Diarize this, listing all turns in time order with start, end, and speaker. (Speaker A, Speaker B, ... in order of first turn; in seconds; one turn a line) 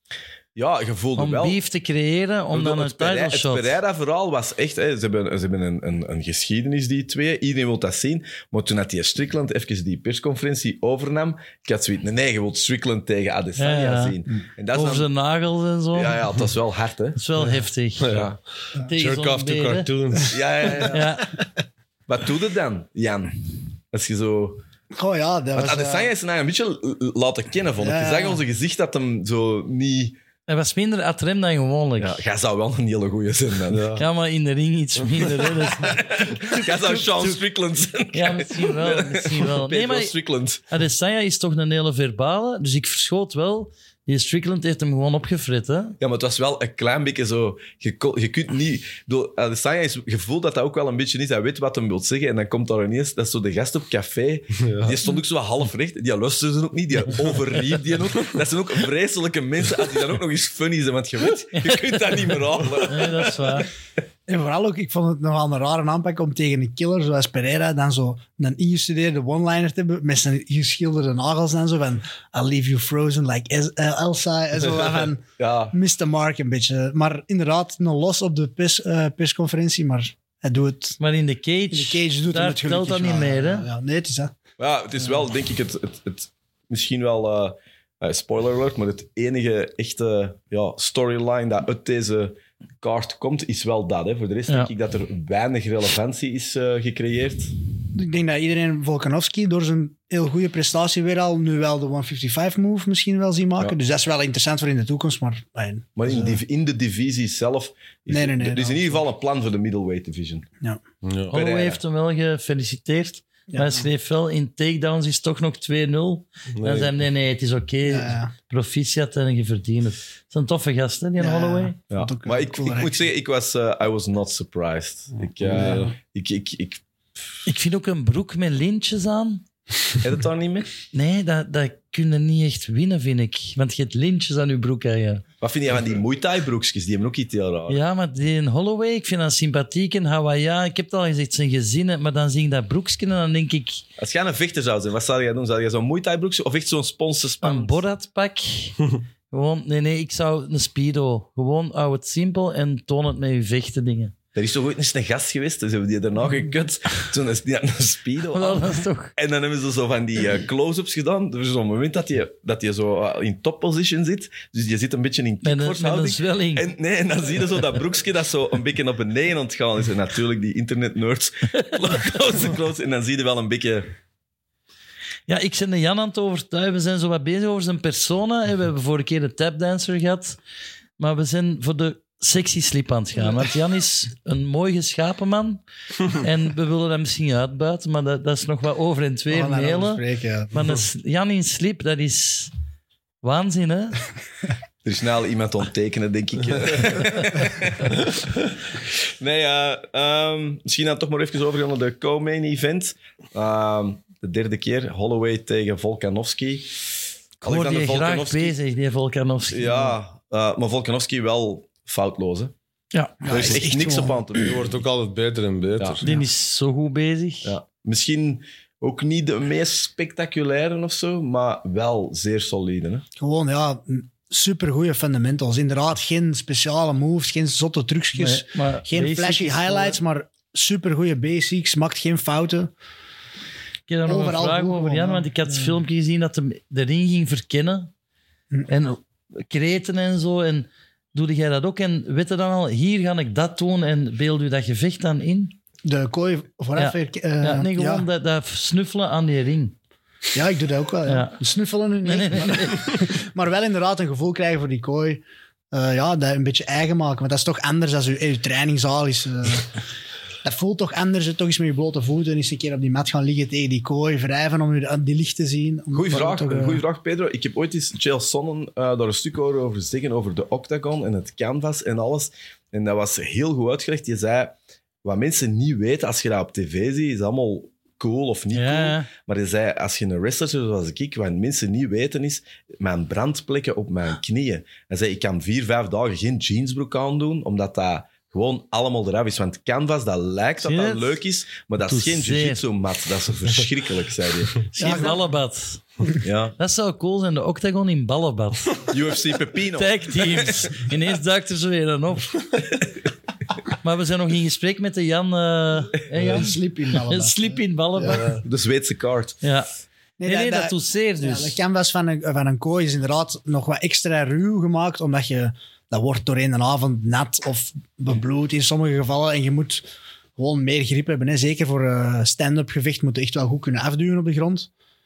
Speaker A: 0.6-1.6
Speaker B: 1.2-3.8
Speaker A: 2.5-15.1
Speaker B: 13.6-14.2
Speaker B: 14.7-16.2
Speaker A: 15.9-17.2
Speaker B: 17.2-18.1
Speaker C: 18.0-18.3
Speaker A: 18.1-18.4
Speaker B: 18.9-19.9
Speaker C: 18.9-20.4
Speaker A: 20.3-21.1
Speaker B: 20.8-21.3
Speaker A: 22.1-24.6
Speaker D: 24.9-26.1
Speaker A: 25.6-30.2
Speaker D: 27.8-28.4
Speaker B: 30.5-32.2
Speaker A: 32.0-34.0
Speaker C: 33.7-34.0
Speaker B: 34.0-37.4
Speaker A: 35.8-40.6
Speaker B: 38.1-40.1
Speaker B: 40.7-46.0
Speaker A: 46.0-63.6
Speaker C: 54.6-55.0
Speaker B: 61.5-62.0
Speaker B: 62.8-63.7
Speaker D: 64.3-81.0
Speaker A: 75.4-75.8
Speaker B: 81.0-83.7
Speaker D: 81.7-84.3
Speaker A: 84.6-97.5
Speaker D: 97.9-106.4
Speaker A: 106.0-110.5
Speaker D: 108.1-109.0
Speaker C: 111.0-111.3
Speaker A: 111.3-111.8
Speaker B: 111.3-121.8
Speaker D: 113.5-113.9
Speaker C: 116.6-116.9
Speaker D: 117.9-118.3
Speaker D: 121.2-123.0
Speaker A: 121.9-126.8
Speaker C: 125.4-125.9
Speaker D: 125.6-125.8
Speaker B: 127.5-129.4
Speaker A: 130.0-130.7
Speaker B: 130.9-135.2
Speaker A: 135.4-137.8
Speaker B: 137.7-143.8
Speaker A: 144.0-147.8
Speaker B: 147.4-148.8
Speaker B: 149.3-154.1
Speaker A: 154.3-173.9
Speaker B: 158.3-159.1
Speaker B: 165.4-166.7
Speaker B: 175.3-180.4
Speaker B: 181.0-192.5
Speaker D: 189.3-190.6
Speaker B: 193.2-194.0
Speaker A: 194.8-206.8
Speaker A: 207.4-208.6
Speaker B: 207.4-210.0
Speaker A: 209.5-212.5
Speaker B: 212.9-213.4
Speaker D: 213.2-214.2
Speaker A: 213.2-214.8
Speaker C: 214.4-216.0
Speaker B: 216.0-217.5
Speaker A: 217.4-223.1
Speaker D: 223.2-232.7
Speaker B: 228.2-230.0
Speaker B: 233.9-237.9
Speaker D: 234.1-235.7
Speaker B: 238.7-245.5
Speaker D: 245.8-248.1
Speaker B: 246.8-249.8
Speaker D: 250.3-259.8
Speaker B: 251.1-251.4
Speaker B: 252.1-252.9
Speaker D: 260.4-266.8
Speaker A: 265.9-294.6
Speaker B: 278.5-279.1
Speaker B: 290.6-291.2
Speaker B: 291.8-292.6
Speaker B: 294.7-295.8
Speaker D: 294.8-295.2
Speaker A: 296.2-296.6
Speaker B: 296.6-298.9
Speaker A: 298.9-300.7
Speaker B: 299.8-302.4
Speaker B: 303.8-308.4
Speaker D: 306.1-308.2
Speaker A: 308.4-309.4
Speaker B: 309.4-309.7
Speaker D: 310.2-319.9
Speaker B: 310.2-311.6
Speaker D: 320.4-324.7